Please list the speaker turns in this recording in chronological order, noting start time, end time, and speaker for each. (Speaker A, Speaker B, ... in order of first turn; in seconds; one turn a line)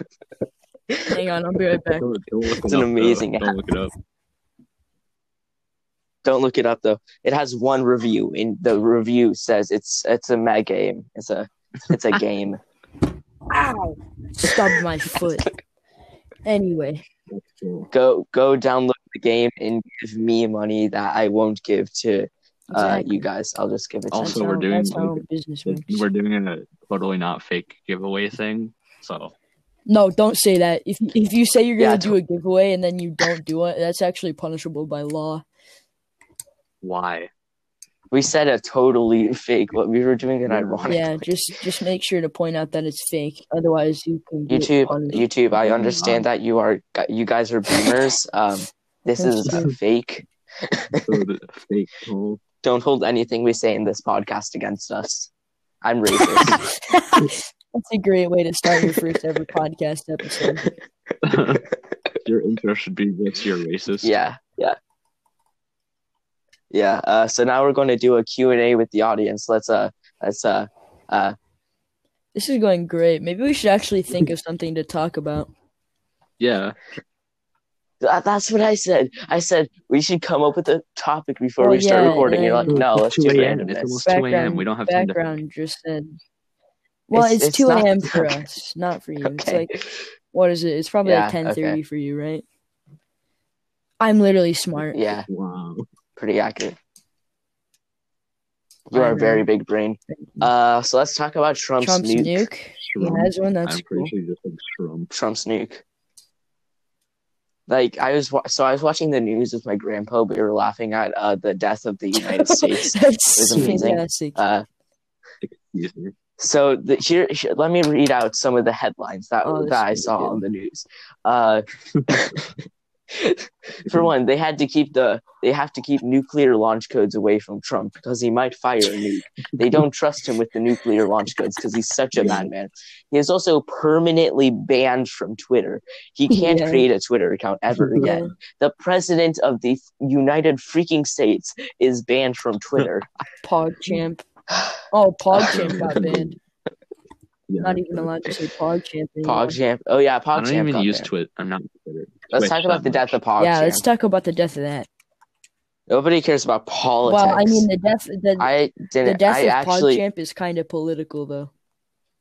Speaker A: 1.1-2.1
Speaker B: 1.9-3.9
Speaker C: 2.6-3.6
Speaker C: 6.2-12.6
Speaker C: 13.5-13.9
Speaker A: 14.4-15.5
Speaker A: 16.4-17.0
Speaker B: 17.3-17.9
Speaker C: 17.9-24.4
Speaker A: 22.7-23.3
Speaker B: 24.1-29.3
Speaker A: 24.1-26.1
Speaker A: 29.9-35.4
Speaker C: 31.8-32.2
Speaker B: 36.8-37.3
Speaker C: 38.1-41.1
Speaker B: 40.5-41.0
Speaker A: 40.9-45.3
Speaker C: 44.5-51.2
Speaker B: 45.5-46.3
Speaker A: 49.2-49.7
Speaker B: 49.5-49.7
Speaker B: 51.1-52.4
Speaker C: 52.6-55.3
Speaker C: 55.8-56.6
Speaker A: 56.2-60.7
Speaker B: 61.2-61.7
Speaker B: 62.2-64.2
Speaker C: 64.0-64.8
Speaker C: 66.7-71.4
Speaker A: 72.3-75.5
Speaker B: 76.4-76.8
Speaker C: 78.0-84.1
Speaker A: 81.6-82.8
Speaker B: 81.9-85.4
Speaker A: 84.0-86.2
Speaker A: 87.1-89.7
Speaker C: 87.1-88.3
Speaker C: 89.2-89.7
Speaker A: 90.3-92.5
Speaker C: 91.0-91.8
Speaker A: 94.0-95.0
Speaker C: 94.9-95.3
Speaker B: 95.1-95.8
Speaker C: 96.2-96.8
Speaker C: 98.9-102.5
Speaker A: 98.9-99.5
Speaker A: 100.1-100.5
Speaker A: 101.8-104.1
Speaker B: 102.9-105.1
Speaker C: 105.1-105.8
Speaker C: 107.7-114.7
Speaker A: 112.2-114.4
Speaker B: 113.5-113.8
Speaker B: 115.4-116.1
Speaker C: 116.4-122.5
Speaker A: 119.4-120.4
Speaker C: 123.1-143.1
Speaker B: 132.2-132.5
Speaker A: 136.3-136.9
Speaker B: 137.8-138.1
Speaker A: 137.9-138.3
Speaker A: 143.4-144.2
Speaker A: 144.9-146.4
Speaker B: 145.3-146.4
Speaker B: 147.5-148.1
Speaker A: 147.6-149.6
Speaker C: 149.2-151.1
Speaker B: 150.3-153.1
Speaker C: 152.3-153.8
Speaker A: 153.4-154.9
Speaker C: 155.9-157.7
Speaker A: 157.0-158.5
Speaker C: 158.4-160.0
Speaker A: 159.0-161.5